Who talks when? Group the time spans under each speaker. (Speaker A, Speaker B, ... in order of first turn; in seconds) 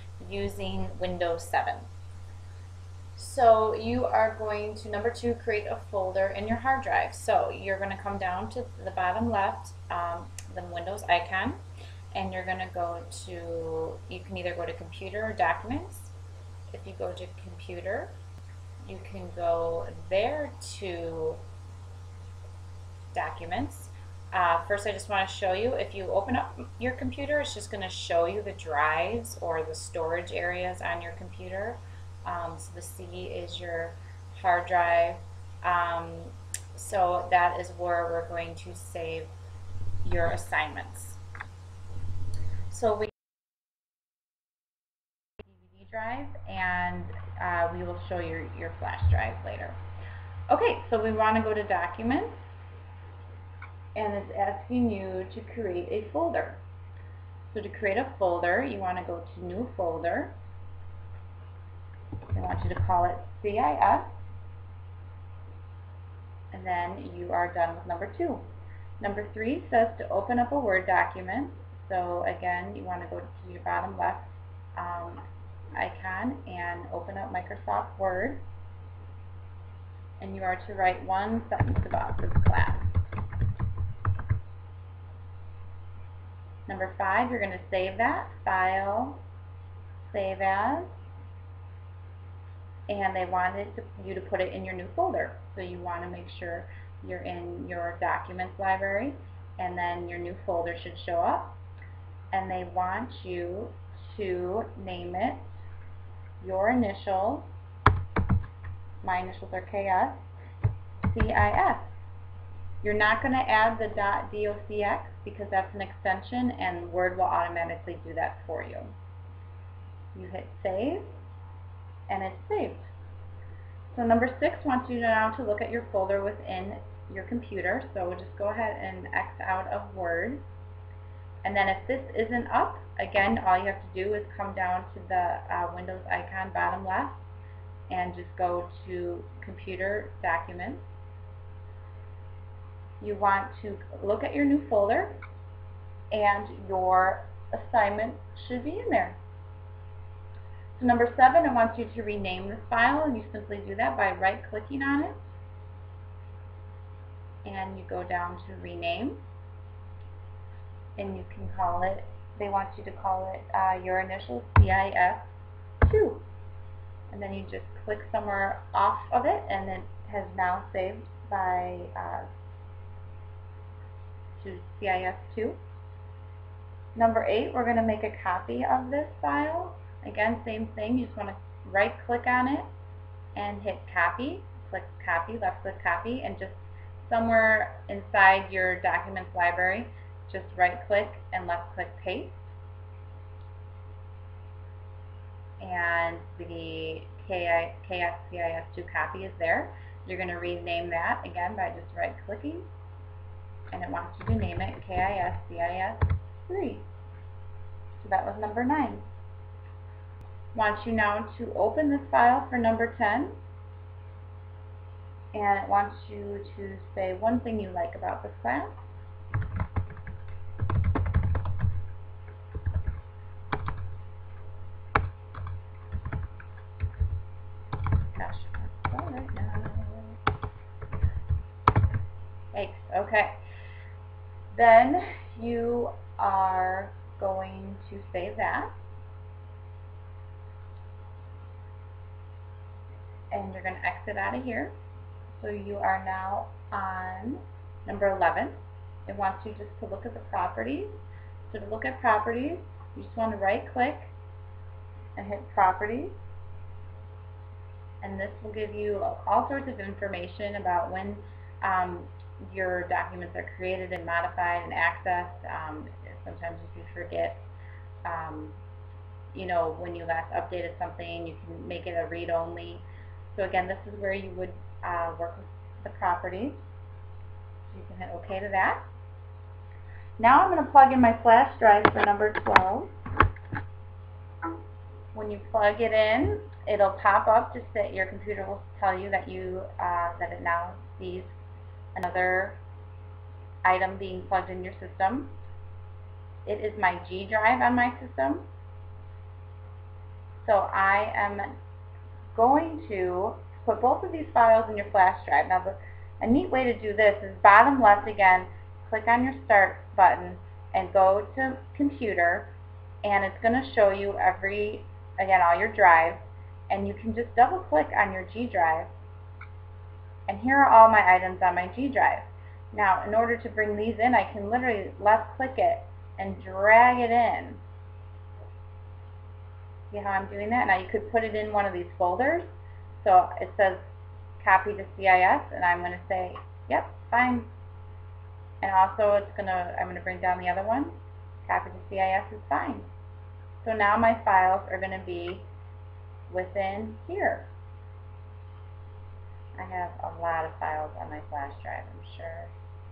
Speaker A: 0.2-1.9, 3.1-11.6, 12.1-16.1, 16.7-18.1, 18.8-21.4, 23.1-39.3, 40.0-41.2, 42.7-43.1, 45.5-49.8, 50.5-52.4, 53.9-56.6, 57.5-60.3, 62.3-64.1, 66.5-68.4, 69.0-75.2, 75.7-78.4, 80.2-82.9, 86.7-89.2, 90.1-90.9, 92.9-101.6, 102.3-105.5, 106.4-107.5, 109.0-110.2, 111.0-111.9, 112.8-118.9, 120.1-121.1, 122.1-122.9, 123.9-130.4, 131.4-137.2, 137.9-140.8, 143.0-145.2, 146.1-149.2, 150.8-155.2, 157.4-159.2, 161.0-165.3, 165.8-166.2, 167.1-172.3, 174.4-175.6, 176.9-182.7, 183.3-192.5, 195.6-202.7, 203.7-206.8, 208.0-209.0, 210.5-213.3, 215.3-218.8, 228.1-230.2, 232.5-233.4, 234.5-238.7, 243.3-244.7, 245.3-250.9, 251.5-254.1, 255.2-256.1, 258.0-267.4, 268.0-268.6, 269.3-276.6, 277.7-278.8, 280.2-282.9, 285.1-291.3, 291.9-292.6, 293.6-295.3, 296.4-298.5, 300.4-301.5, 302.3-318.9, 320.3-327.6, 329.9-332.5, 333.0-333.8, 334.4-337.5, 338.6-342.9, 343.6-345.5, 346.3-347.5, 349.6-352.5